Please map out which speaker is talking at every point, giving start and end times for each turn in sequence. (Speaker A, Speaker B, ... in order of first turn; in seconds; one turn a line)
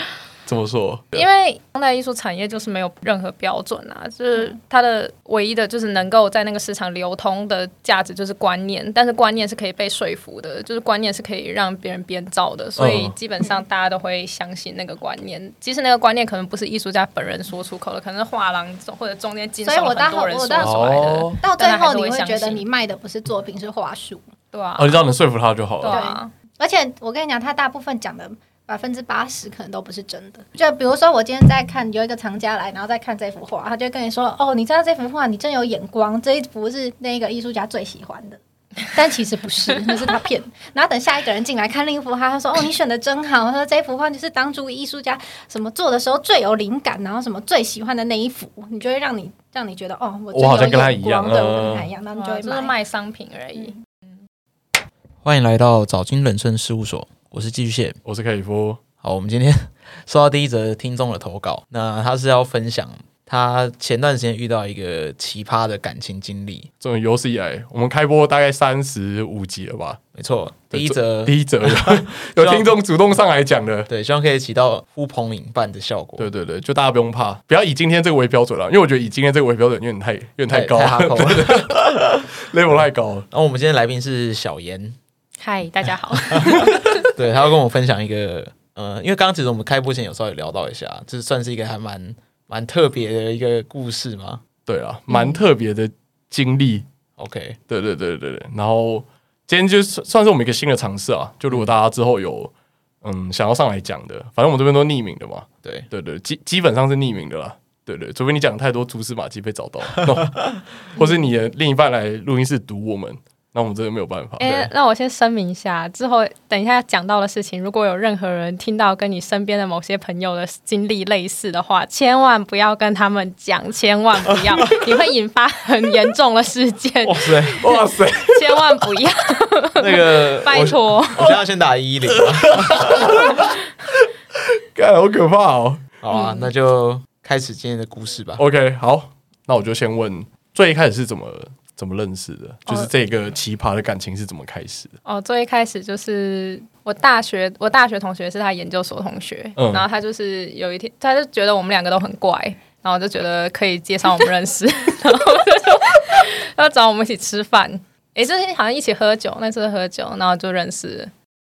Speaker A: 0.5-1.2
Speaker B: 1.1-22.6
Speaker A: 12.8-13.1
Speaker C: 19.6-24.2
Speaker A: 20.6-21.4
Speaker B: 24.5-25.0
Speaker A: 24.8-26.0
Speaker B: 25.8-26.3
Speaker C: 25.9-52.7
Speaker A: 50.3-51.9
Speaker B: 52.1-53.8
Speaker D: 55.2-58.0
Speaker A: 58.0-58.8
Speaker D: 59.0-66.7
Speaker A: 66.8-70.0
Speaker D: 70.1-72.7
Speaker A: 70.7-73.9
Speaker D: 73.9-76.2
Speaker A: 76.2-83.3
Speaker D: 80.5-82.0
Speaker D: 83.3-85.0
Speaker B: 85.4-87.1
Speaker D: 86.1-94.4
Speaker A: 94.7-96.8
Speaker B: 95.1-95.4
Speaker D: 97.2-97.6
Speaker A: 97.7-102.5
Speaker A: 103.0-114.6
Speaker B: 114.4-131.4
Speaker D: 114.4-114.7
Speaker D: 127.0-127.7
Speaker A: 127.6-128.8
Speaker D: 129.8-133.4
Speaker A: 132.2-134.0
Speaker A: 134.6-135.8
Speaker D: 136.0-138.4
Speaker B: 136.1-136.5
Speaker A: 138.3-144.9
Speaker B: 145.0-161.1
Speaker A: 149.6-149.8